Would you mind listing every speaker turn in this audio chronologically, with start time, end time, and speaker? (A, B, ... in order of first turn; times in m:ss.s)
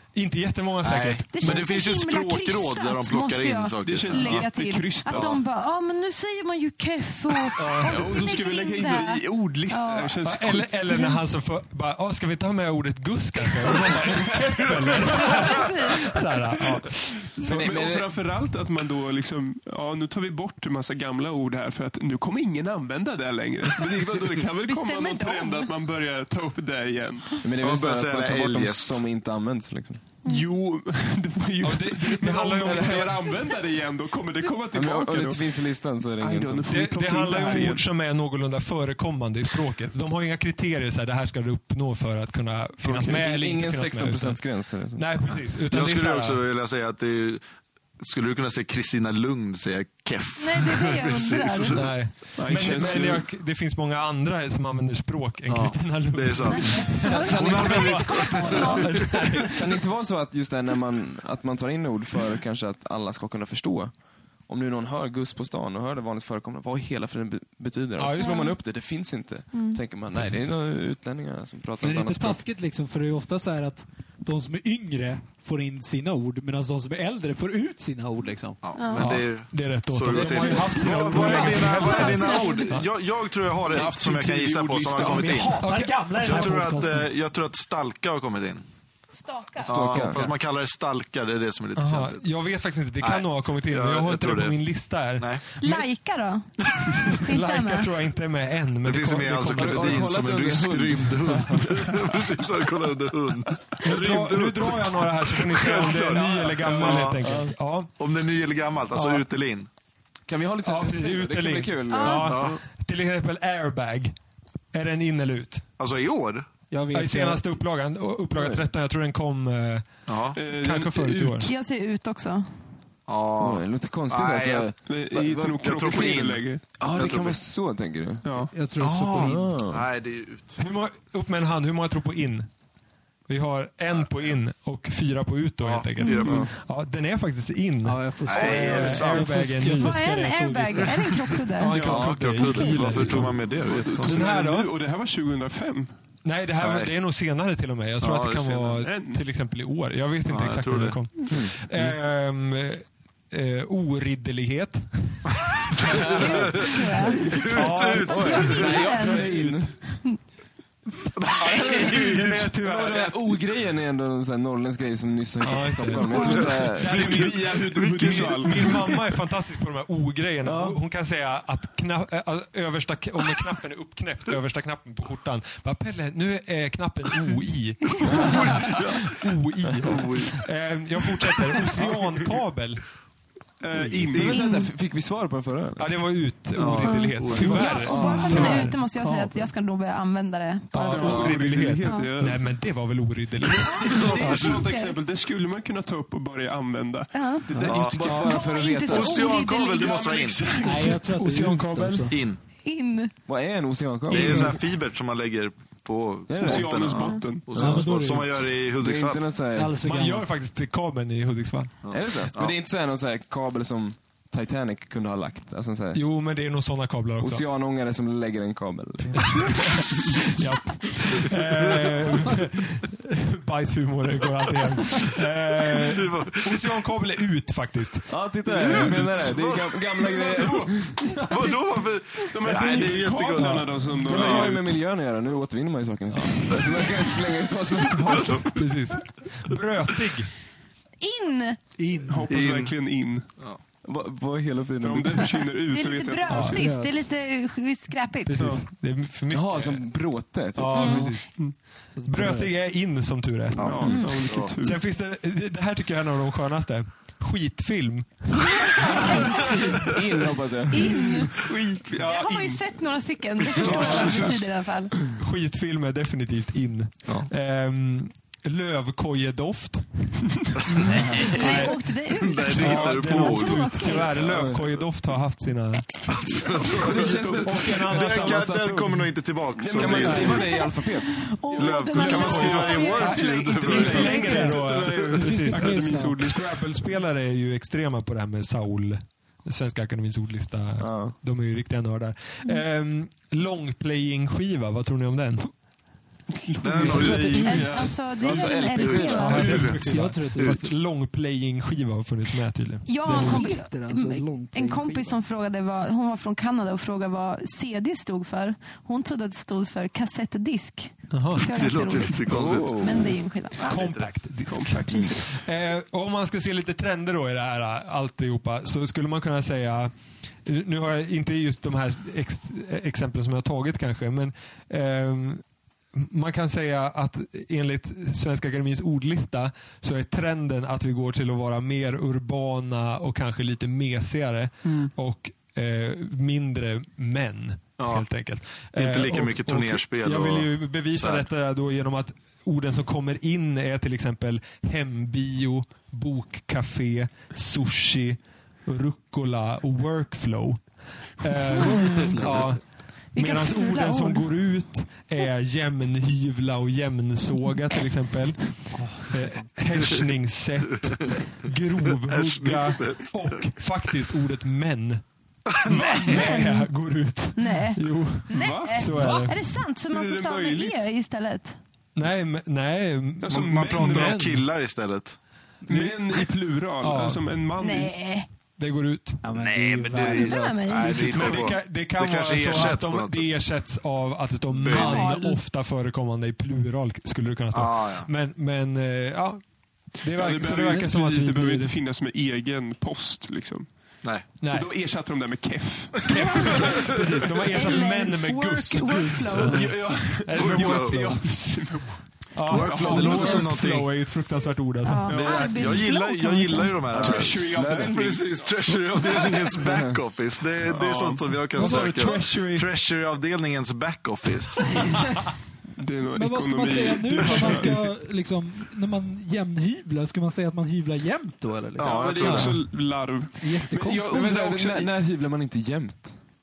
0:00.1-0:01.7 A
0:00.8-0:04.4 B
0:01.3-0:10.2 C
0:03.8-0:05.4 D
0:05.1-0:05.4 B
0:07.5-0:10.8 D
0:07.6-0:08.0 A
0:10.2-0:17.8 A
0:10.9-0:11.2 C
0:13.8-0:15.1 D
0:15.1-0:16.2 C
0:17.4-0:27.4 D
0:17.4-0:18.1 E
0:24.6-0:25.7 C
0:27.4-0:30.0 E
0:27.6-0:29.0 B
0:30.2-0:35.4 D
0:31.6-0:33.2 A
0:34.7-0:36.7 E
0:36.2-0:37.9 D
0:36.7-0:46.4 A
0:42.8-0:43.3 D
0:43.1-0:45.3 E
0:45.7-0:47.4 B
0:48.0-0:51.9 B
0:50.4-0:51.9 C
0:51.7-0:59.6 A
0:52.4-0:53.3 D
0:55.5-0:59.3 B
0:56.5-0:59.5 C
0:59.5-1:03.9 E
1:04.5-1:12.4 E
1:08.0-1:08.4 A
1:08.2-1:08.6 C
1:09.5-1:09.8 C
1:11.8-1:18.6 F
1:18.6-1:28.6 B
1:18.8-1:19.1 C
1:19.0-1:22.9 A
1:20.1-1:21.8 F
1:21.4-1:22.7 C
1:23.7-1:25.6 D
1:24.9-1:27.1 F
1:25.6-1:26.8 A
1:29.2-1:30.1 C
1:29.6-1:30.3 E
1:29.6-1:32.2 B
1:31.8-1:35.9 A
1:33.0-1:34.6 B
1:35.2-1:35.4 B
1:35.6-1:36.5 C
1:36.6-1:40.1 A
1:37.1-1:37.9 C
1:38.8-1:47.4 B
1:39.5-1:41.8 E
1:43.8-1:47.9 A
1:46.6-1:47.0 D
1:47.0-1:47.5 E
1:48.0-1:49.7 B
1:48.9-1:49.2 A
1:50.3-1:52.5 E
1:50.6-1:54.1 A
1:51.9-1:52.3 C
1:52.3-1:52.6 B
1:54.7-1:55.6 A
1:55.8-1:56.5 B
1:56.7-1:57.4 F
1:56.9-2:01.5 A
1:58.4-1:58.6 E
2:00.1-2:00.4 B
2:00.4-2:01.5 D
2:01.4-2:02.5 C
2:03.1-2:07.4 B
2:03.4-2:04.8 E
2:04.9-2:06.6 D
2:06.8-2:08.3 E
2:08.2-2:08.5 D
2:08.5-2:09.5 F
2:08.8-2:10.6 B
2:09.2-2:09.8 E
2:10.6-2:12.5 A
2:13.3-2:20.1 A
2:15.6-2:16.5 B
2:16.0-2:16.4 C
2:16.2-2:16.5 E
2:17.8-2:21.3 F
2:18.3-2:19.4 B
2:19.8-2:23.0 C
2:21.5-2:24.7 A
2:21.7-2:22.2 D
2:21.7-2:24.4 B
2:23.6-2:25.9 D
2:26.2-2:39.6 A
2:26.6-2:26.9 B
2:28.0-2:28.8 B
2:28.8-2:29.3 D
2:30.3-2:31.2 B
2:31.3-2:31.6 E
2:35.8-2:36.7 B
2:35.9-2:36.4 E
2:36.2-2:37.4 C
2:37.3-2:39.2 B
2:37.9-2:39.4 C
2:38.0-2:39.8 E
2:41.2-2:42.5 B
2:41.4-2:43.1 A
2:42.4-2:47.1 E
2:45.4-2:47.4 A
2:45.9-2:48.8 B
2:46.1-2:46.5 C
2:46.8-2:49.0 D
2:48.0-3:02.8 A
2:50.4-2:50.8 E
2:58.2-2:59.2 B
2:59.8-3:00.4 B
3:03.6-3:04.6 D
3:03.7-3:05.9 E
3:04.3-3:04.7 C
3:05.8-3:09.2 A
3:06.6-3:08.1 B
3:06.7-3:11.3 C
3:07.4-3:08.6 E
3:10.7-3:14.5 A
3:10.8-3:12.6 D
3:11.0-3:11.4 B
3:11.8-3:12.1 C
3:13.4-3:18.2 D
3:13.6-3:15.0 C
3:13.9-3:14.6 B
3:17.1-3:17.5 C
3:17.5-3:19.4 E
3:17.6-3:18.3 B
3:18.1-3:20.3 C
3:18.8-3:20.6 B
3:19.4-3:21.1 D
3:20.6-3:22.2 F
3:20.8-3:22.2 A
3:22.1-3:22.4 B
3:22.6-3:23.1 C
3:23.3-3:24.6 E
3:24.1-3:29.2 B
3:26.3-3:27.0 E
3:26.4-3:27.5 D
3:27.6-3:28.4 F
3:27.6-3:27.9 E
3:28.8-3:29.8 E
3:29.6-3:30.3 F
3:29.8-3:31.8 A
3:31.8-3:32.6 B
3:31.9-3:36.0 E
3:35.9-3:37.4 A
3:37.2-3:39.6 E
3:39.2-3:48.9 A
3:45.7-3:46.7 B
3:48.1-3:50.9 E
3:48.6-3:49.9 B
3:50.0-3:50.9 D
3:51.3-3:54.6 B
3:52.3-3:54.7 D
3:53.4-3:53.9 A
3:54.0-3:58.6 E
3:56.1-3:56.6 A
3:58.4-4:00.3 A
4:01.0-4:01.6 C
4:01.8-4:02.3 F
4:02.1-4:03.3 D
4:02.3-4:02.8 B
4:03.8-4:05.4 E
4:04.8-4:06.6 D
4:05.7-4:08.4 C
4:06.3-4:06.6 A
4:06.4-4:06.9 F
4:08.3-4:11.3 A
4:08.4-4:08.6 D
4:09.3-4:11.1 E
4:10.8-4:11.1 C
4:12.0-4:12.5 F
4:12.0-4:19.5 A
4:13.6-4:14.5 B
4:13.6-4:14.8 D
4:13.8-4:14.0 E
4:13.9-4:14.2 C
4:18.6-4:19.5 C
4:19.2-4:21.3 E
4:20.7-4:21.4 C
4:21.3-4:22.6 D
4:22.0-4:25.1 C
4:23.4-4:24.5 D
4:23.7-4:24.2 E
4:25.2-4:31.9 A
4:30.9-4:31.2 E
4:30.9-4:34.3 C
4:31.2-4:34.4 B
4:32.5-4:36.0 A
4:34.2-4:34.7 E
4:36.1-4:40.6 B
4:36.6-4:41.3 E
4:37.0-4:37.4 D
4:37.4-4:38.5 A
4:39.8-4:40.4 D
4:40.2-4:44.2 C
4:41.5-4:46.8 D
4:41.6-4:45.0 B
4:42.9-4:55.5 A
4:43.9-4:46.2 F
4:50.8-4:51.2 E
4:56.3-4:58.1 D
4:56.6-5:00.6 B
4:57.3-4:59.6 C
4:58.1-4:59.8 E
4:59.1-5:03.5 A
4:59.8-5:00.5 F
5:02.9-5:13.9 C
5:03.0-5:05.2 F
5:11.1-5:11.5 A
5:11.4-5:13.0 B
5:12.3-5:13.2 E
5:13.6-5:19.9 A
5:13.7-5:14.1 B
5:14.4-5:15.2 D
5:14.9-5:15.2 C
5:20.4-5:50.6 A
5:34.6-5:34.9 D
5:37.8-5:38.1 B
5:38.7-5:41.3 B
5:51.2-6:05.0 A
5:53.1-5:54.3 C
5:58.7-5:59.5 F
6:02.1-6:03.4 B
6:05.5-6:06.4 B
6:05.7-6:09.4 A
6:06.1-6:06.6 C
6:07.4-6:11.6 C
6:08.3-6:09.4 D
6:09.9-6:10.8 D
6:11.9-6:14.4 A
6:13.2-6:14.3 D
6:13.3-6:15.2 B
6:15.6-6:17.9 D
6:15.7-6:16.3 A
6:16.8-6:17.4 A
6:17.6-6:18.3 C
6:18.6-6:19.2 A
6:19.2-6:21.1 F
6:19.4-6:23.3 B
6:20.0-6:21.4 C
6:21.0-6:21.5 D
6:21.1-6:29.4 A
6:24.5-6:25.1 B
6:24.7-6:25.4 C
6:27.5-6:28.1 B
6:29.9-6:31.8 A
6:30.1-6:37.4 D
6:34.4-6:34.7 A
6:36.0-6:41.2 A
6:36.2-6:36.8 C
6:36.7-6:37.0 B
6:37.5-6:39.7 C
6:39.4-6:43.6 D
6:40.4-6:41.0 B
6:42.3-6:45.2 A
6:42.5-6:44.0 B
6:42.9-6:43.2 E
6:44.8-6:46.9 C
6:45.1-6:45.8 D
6:45.1-6:54.8 B
6:46.9-6:49.5 D
6:46.9-6:48.2 E
6:49.6-6:50.0 E
6:50.6-6:52.1 D
6:51.5-6:52.7 A
6:55.8-6:57.8 D
6:56.2-7:02.0 F
6:57.2-6:57.9 A
7:01.8-7:04.9 D
7:01.8-7:02.6 B
7:02.2-7:02.7 A
7:03.4-7:04.2 F
7:04.0-7:06.2 E